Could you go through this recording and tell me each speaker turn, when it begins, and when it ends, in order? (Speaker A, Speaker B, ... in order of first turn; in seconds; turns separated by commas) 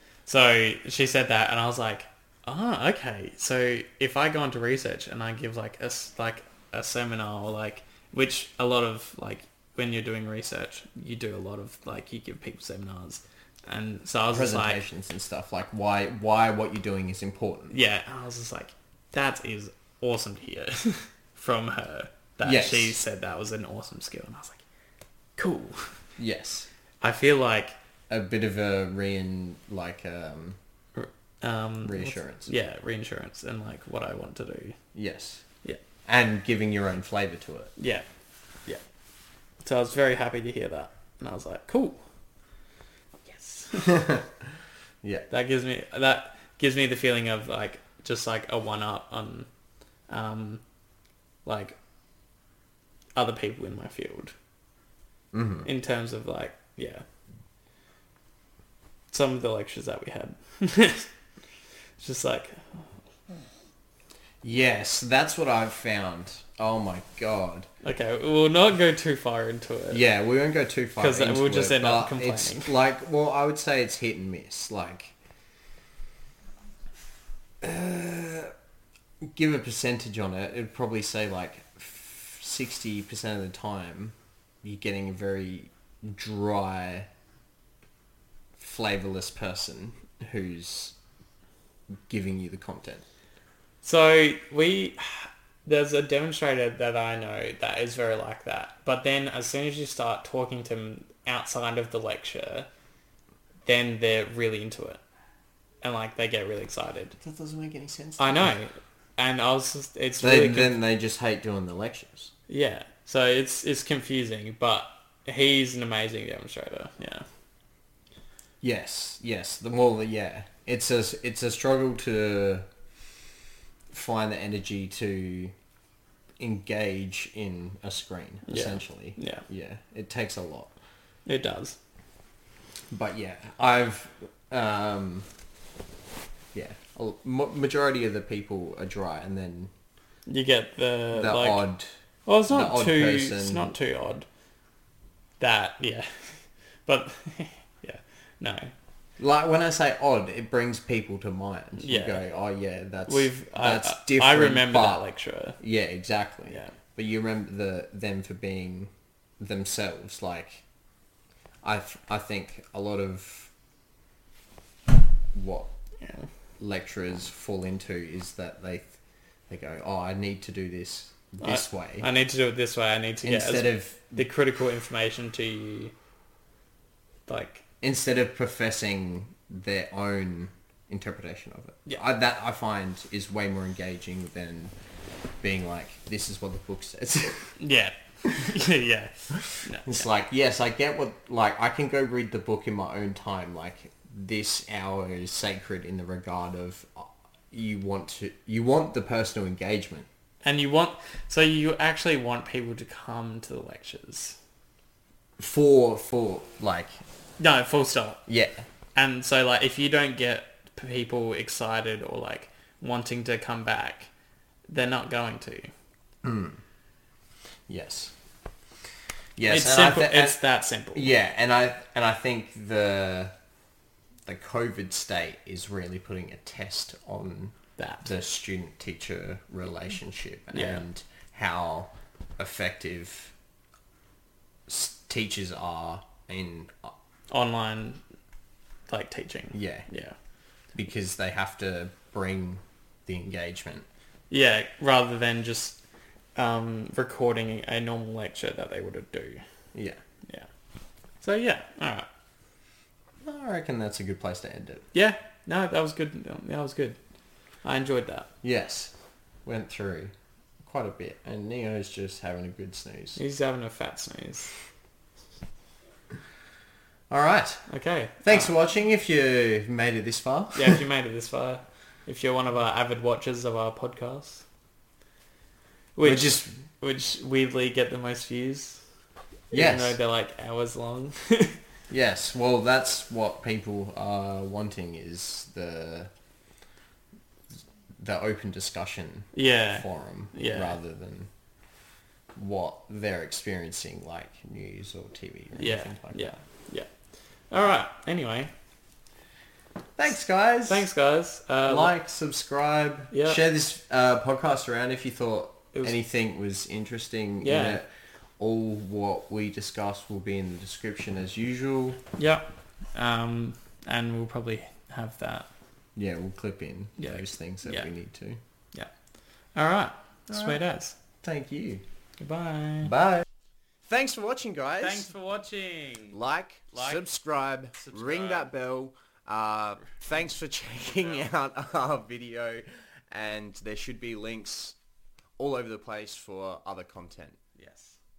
Speaker A: 0.2-14.8, Speaker B: 14.3-17.7, Speaker A: 17.7-24.6, Speaker B: 22.4-23.0, Speaker A: 25.4-25.9, Speaker B: 26.2-26.7, Speaker A: 27.0-27.7, Speaker B: 28.1-30.6, Speaker A: 30.9-34.8, Speaker B: 31.8-32.5, Speaker B: 34.9-35.4, Speaker B: 36.0-37.7, Speaker A: 37.8-38.0, Speaker A: 39.6-42.0, Speaker A: 43.2-44.1, Speaker B: 43.8-44.5, Speaker B: 45.0-45.3, Speaker A: 45.3-49.5, Speaker A: 50.1-50.6, Speaker A: 51.4-51.8, Speaker A: 53.1-54.3, Speaker B: 55.3-55.7, Speaker A: 55.6-57.0, Speaker A: 59.1-61.1, Speaker A: 62.0-62.8, Speaker B: 64.4-67.7, Speaker A: 67.8-70.0, Speaker B: 69.9-75.1, Speaker A: 71.0-72.7, Speaker B: 77.6-78.5, Speaker B: 79.2-87.1, Speaker B: 88.6-91.0, Speaker B: 92.1-93.0, Speaker A: 93.8-102.7, Speaker A: 103.7-105.0, Speaker A: 105.8-107.2, Speaker B: 107.2-108.5, Speaker A: 108.2-110.7, Speaker B: 110.2-112.3, Speaker A: 112.5-117.2, Speaker B: 118.6-122.7, Speaker B: 123.9-125.5, Speaker B: 126.4-130.7, Speaker A: 128.5-129.4, Speaker A: 131.2-131.8, Speaker B: 132.9-135.3, Speaker B: 136.5-139.7, Speaker A: 140.3-141.7, Speaker B: 141.1-141.9, Speaker A: 142.3-144.2, Speaker B: 142.5-143.7, Speaker A: 145.4-148.7, Speaker B: 149.2-155.0, Speaker A: 151.8-152.2, Speaker A: 153.1-155.6, Speaker B: 155.6-160.6, Speaker B: 161.6-163.5, Speaker B: 165.3-165.7, Speaker A: 166.0-166.3, Speaker B: 166.6-169.0, Speaker B: 169.5-172.1, Speaker A: 171.4-175.9, Speaker B: 173.2-174.3, Speaker A: 177.3-177.6, Speaker B: 177.8-184.7, Speaker B: 185.4-187.5, Speaker A: 187.6-190.1, Speaker B: 189.3-200.1, Speaker A: 200.4-204.4, Speaker B: 205.4-207.0, Speaker A: 207.4-208.2, Speaker B: 208.3-208.7, Speaker A: 208.9-214.1, Speaker A: 214.7-215.7, Speaker B: 216.2-216.6, Speaker B: 217.7-218.1, Speaker B: 219.4-220.4, Speaker A: 219.5-221.1, Speaker B: 220.9-223.3, Speaker B: 224.2-233.3, Speaker A: 227.8-228.1, Speaker A: 230.5-230.8, Speaker B: 234.7-236.9, Speaker A: 237.3-238.0, Speaker A: 238.9-240.2, Speaker B: 239.5-239.8, Speaker B: 240.7-243.8, Speaker A: 244.3-245.8, Speaker A: 246.3-249.4, Speaker B: 249.7-250.0, Speaker A: 251.2-252.1, Speaker B: 253.2-254.8, Speaker A: 254.9-257.0, Speaker A: 257.6-258.3, Speaker B: 258.4-258.9, Speaker B: 259.4-263.2, Speaker A: 263.1-264.5, Speaker B: 267.1-267.6, Speaker A: 267.7-268.5, Speaker B: 268.2-270.8, Speaker A: 270.5-274.4, Speaker A: 275.9-278.8, Speaker B: 276.0-276.5, Speaker B: 279.5-280.0, Speaker A: 279.5-281.6, Speaker B: 281.9-286.1, Speaker B: 288.0-291.3, Speaker A: 289.3-290.8, Speaker B: 292.4-296.3, Speaker A: 295.6-296.9, Speaker A: 297.5-298.5, Speaker B: 300.0-300.9, Speaker A: 300.7-301.9, Speaker B: 301.6-307.9, Speaker A: 303.1-303.4, Speaker A: 307.4-307.8, Speaker B: 308.4-312.0, Speaker A: 312.2-315.5, Speaker B: 315.9-318.4, Speaker A: 317.0-317.9, Speaker A: 319.5-321.0, Speaker B: 320.3-320.6, Speaker B: 321.2-321.8, Speaker A: 322.2-322.9, Speaker B: 322.8-323.3, Speaker B: 323.8-325.1, Speaker A: 324.8-326.2, Speaker B: 326.1-334.8, Speaker A: 326.7-327.0, Speaker A: 327.7-328.5, Speaker A: 330.9-331.2, Speaker B: 335.4-337.4, Speaker A: 337.6-338.0